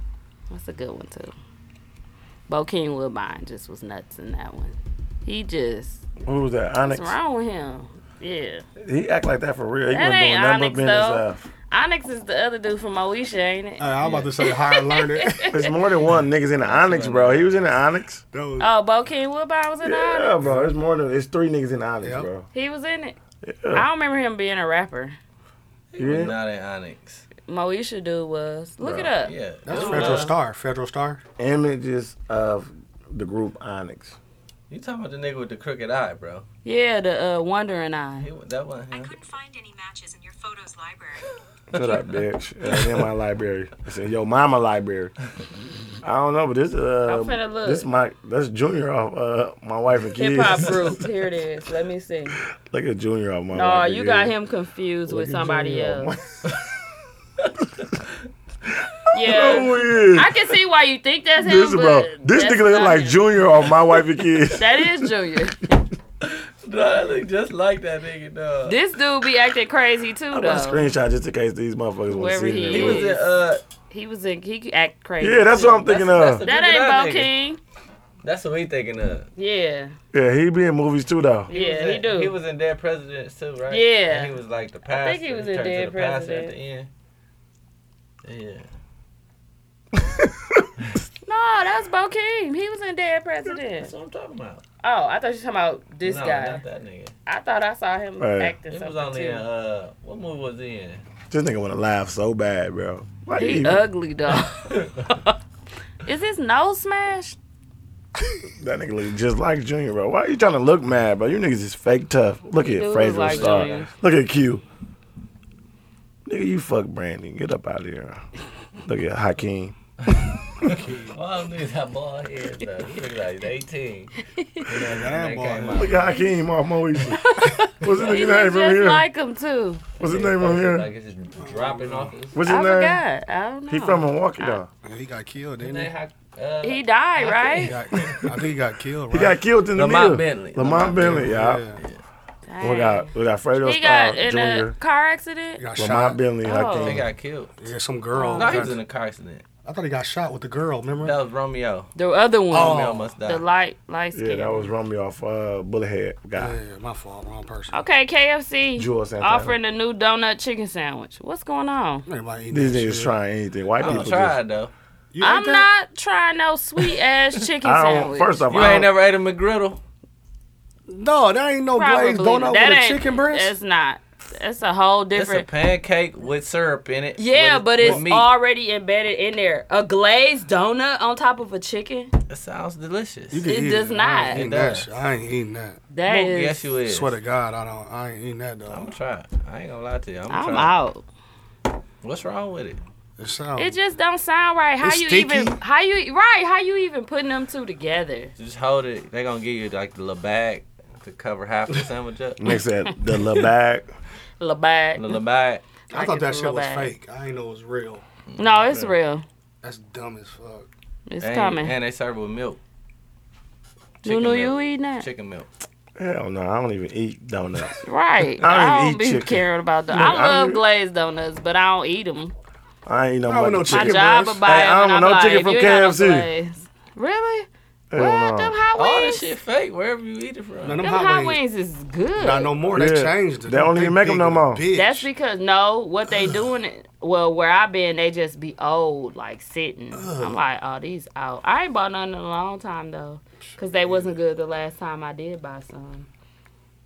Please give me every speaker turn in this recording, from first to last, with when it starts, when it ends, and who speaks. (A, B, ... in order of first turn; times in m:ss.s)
0:00.5-0:01.3 A
0:02.5-0:06.0 A
0:06.2-0:07.2 B
0:06.8-0:08.6 A
0:08.8-0:11.5 B
0:09.9-0:13.9 A
0:13.8-0:15.6 C
0:14.0-0:14.3 D
0:14.4-0:15.6 A
0:15.5-0:18.2 B
0:16.6-0:17.7 D
0:18.3-0:18.7 C
0:18.6-0:20.3 A
0:19.8-0:22.5 B
0:20.4-0:20.7 C
0:22.0-0:22.3 C
0:22.5-0:23.2 A
0:23.4-0:23.8 B
0:23.7-0:25.2 A
0:25.9-0:27.2 D
0:26.0-0:26.4 B
0:27.5-0:30.3 A
0:28.8-0:29.1 B
0:29.2-0:30.4 D
0:29.6-0:31.2 C
0:31.4-0:34.2 B
0:34.7-0:36.4 D
0:36.6-0:38.3 A
0:38.2-0:39.1 D
0:38.9-0:41.2 E
0:41.7-0:45.1 B
0:42.7-0:43.1 D
0:46.0-0:51.0 B
0:47.0-0:47.8 A
0:50.2-0:52.4 A
0:52.6-0:54.3 B
0:53.5-0:56.1 A
0:55.1-0:56.5 B
0:57.4-0:57.9 D
0:58.7-1:00.5 B
0:59.1-1:03.3 A
1:01.4-1:05.1 B
1:04.5-1:05.7 A
1:06.2-1:08.8 D
1:08.6-1:10.8 A
1:10.3-1:13.1 B
1:12.1-1:13.3 A
1:12.7-1:13.6 D
1:13.9-1:17.6 A
1:15.2-1:16.4 B
1:15.7-1:17.3 D
1:18.2-1:19.3 D
1:19.4-1:19.9 A
1:20.1-1:21.5 B
1:21.5-1:22.3 A
1:21.5-1:26.9 D
1:23.7-1:24.3 A
1:24.9-1:26.5 A
1:28.2-1:28.7 D
1:30.0-1:30.7 B
1:31.2-1:33.9 A
1:33.8-1:34.6 D
1:34.8-1:36.6 A
1:36.0-1:37.1 D
1:37.3-1:39.4 A
1:38.2-1:38.6 B
1:38.7-1:41.0 D
1:41.3-1:43.9 B
1:43.4-1:45.3 A
1:44.7-1:45.0 D
1:46.0-1:47.4 A
1:48.6-1:54.6 B
1:52.6-1:53.9 A
1:53.2-1:53.9 D
1:56.2-1:58.2 B
1:58.8-2:00.3 B
2:00.6-2:04.1 D
2:00.6-2:01.2 C
2:04.3-2:04.6 A
2:04.6-2:06.2 D
2:04.7-2:06.0 C
2:05.7-2:09.0 B
2:07.1-2:09.9 A
2:10.0-2:10.9 B
2:10.0-2:12.4 D
2:11.4-2:12.2 C
2:12.3-2:13.0 B
2:12.5-2:14.6 A
2:13.7-2:14.7 B
2:14.8-2:15.9 C
2:15.6-2:18.4 D
2:16.6-2:17.7 A
2:17.6-2:19.4 C
2:19.1-2:21.6 B
2:19.7-2:22.0 D
2:20.8-2:21.8 C
2:22.5-2:25.6 A
2:22.6-2:24.7 B
2:25.6-2:26.2 C
2:25.8-2:27.1 B
2:26.4-2:27.0 A
2:26.8-2:27.5 D
2:27.6-2:28.8 C
2:28.1-2:28.7 A
2:28.3-2:29.4 D
2:29.6-2:31.2 C
2:31.0-2:31.9 D
2:31.9-2:34.7 A
2:32.5-2:33.1 C
2:32.5-2:33.4 D
2:34.1-2:36.6 B
2:36.4-2:37.8 C
2:37.7-2:42.0 A
2:38.8-2:39.6 B
2:42.0-2:43.1 C
2:42.5-2:44.4 B
2:43.8-2:44.7 D
2:43.8-2:44.1 C
2:45.1-2:45.7 C
2:45.2-2:48.8 A
2:47.6-2:48.9 B
2:48.5-2:49.8 D
2:50.9-2:53.5 C
2:51.7-2:55.5 A
2:55.1-2:58.3 D
2:57.2-3:02.1 A
2:57.8-2:58.0 C
3:02.3-3:03.4 D
3:03.3-3:05.8 C
3:03.4-3:04.4 A
3:04.3-3:05.0 D
3:05.9-3:06.7 A
3:06.0-3:07.2 D
3:06.9-3:08.9 C
3:08.7-3:10.7 D
3:10.3-3:11.0 A
3:12.0-3:12.8 D
3:13.2-3:13.8 C
3:13.6-3:18.3 A
3:14.8-3:15.6 C
3:18.4-3:22.4 D
3:22.4-3:23.9 B
3:24.4-3:25.2 A
3:25.0-3:25.6 D
3:25.9-3:26.9 A
3:25.9-3:28.0 C
3:28.3-3:28.9 D
3:28.4-3:29.2 A
3:29.6-3:30.7 C
3:31.1-3:31.7 A
3:31.2-3:32.6 D
3:34.0-3:35.5 D
3:34.0-3:35.0 A
3:36.0-3:37.8 B
3:37.8-3:42.3 A
3:38.4-3:40.6 B
3:42.8-3:46.3 B
3:43.3-3:44.4 C
3:43.7-3:49.3 A
3:47.9-3:48.6 B
3:48.7-3:50.8 D
3:50.6-3:51.4 C
3:50.8-3:52.5 A
3:52.2-3:55.1 C
3:52.7-3:54.6 B
3:54.7-4:06.1 A
3:59.9-4:00.4 C
4:03.5-4:04.2 C